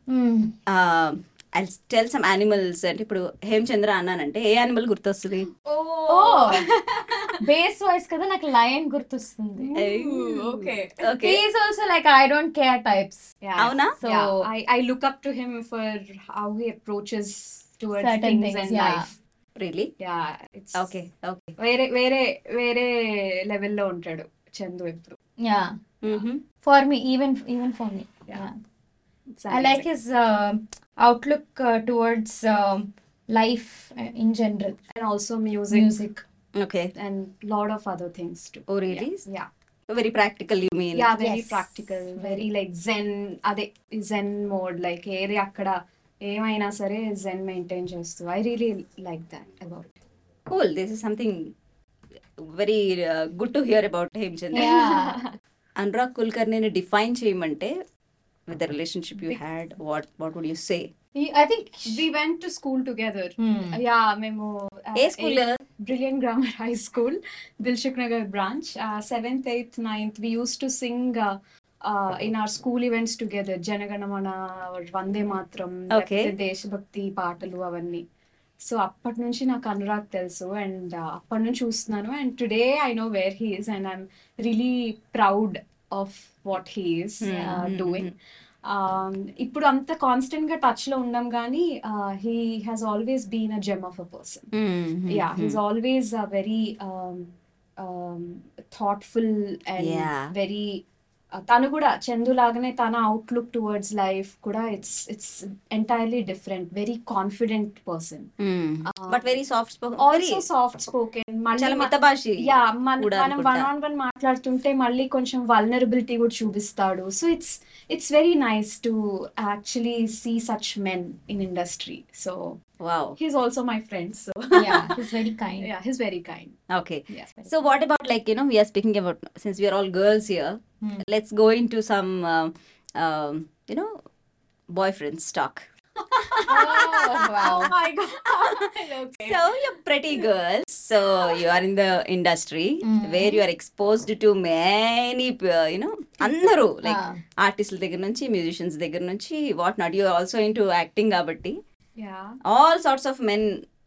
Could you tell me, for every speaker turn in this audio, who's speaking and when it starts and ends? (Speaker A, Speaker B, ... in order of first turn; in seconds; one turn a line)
Speaker A: 0.1-0.6
Speaker B: 0.7-5.5
Speaker C: 5.6-7.4
Speaker A: 6.1-6.7
Speaker A: 7.4-9.7
Speaker C: 9.6-11.0
Speaker B: 9.8-11.4
Speaker A: 11.2-13.3
Speaker C: 13.4-19.2
Speaker B: 13.6-13.9
Speaker A: 14.0-14.4
Speaker A: 18.0-19.1
Speaker B: 19.6-19.9
Speaker C: 20.0-20.9
Speaker B: 20.8-21.5
Speaker C: 21.6-25.2
Speaker A: 25.4-25.8
Speaker B: 26.0-26.4
Speaker A: 26.6-28.6
Speaker C: 29.4-29.9
Speaker A: 29.5-34.8
Speaker C: 34.9-36.0
Speaker A: 35.7-36.2
Speaker B: 36.5-36.9
Speaker C: 37.0-39.5
Speaker B: 38.7-39.2
Speaker B: 39.9-41.1
Speaker C: 41.0-50.0
Speaker A: 41.2-42.5
Speaker B: 50.5-51.5
Speaker B: 52.5-54.9
Speaker A: 54.5-55.2
Speaker C: 54.5-55.4
Speaker B: 55.8-57.7
Speaker B: 58.5-60.9
Speaker A: 61.1-62.1
Speaker C: 61.9-78.0
Speaker A: 63.4-63.8
Speaker B: 65.0-65.6
Speaker B: 75.9-76.3
Speaker C: 78.6-88.1
Speaker B: 87.2-88.1
Speaker A: 87.3-87.7
Speaker C: 88.7-94.5
Speaker B: 94.5-95.6
Speaker C: 95.1-100.8
Speaker B: 99.8-100.3
Speaker C: 101.3-108.3
Speaker B: 108.4-110.4
Speaker C: 108.9-109.4
Speaker C: 110.0-122.6
Speaker B: 111.5-113.7
Speaker B: 122.8-123.2
Speaker C: 123.2-126.6
Speaker A: 124.5-125.7
Speaker B: 126.7-133.9
Speaker B: 134.7-137.8
Speaker C: 136.2-139.6
Speaker A: 136.5-137.7
Speaker B: 138.4-151.6
Speaker C: 141.2-141.6
Speaker A: 142.8-143.4
Speaker C: 146.2-146.5
Speaker A: 146.8-147.2
Speaker C: 152.0-152.4
Speaker B: 152.4-153.7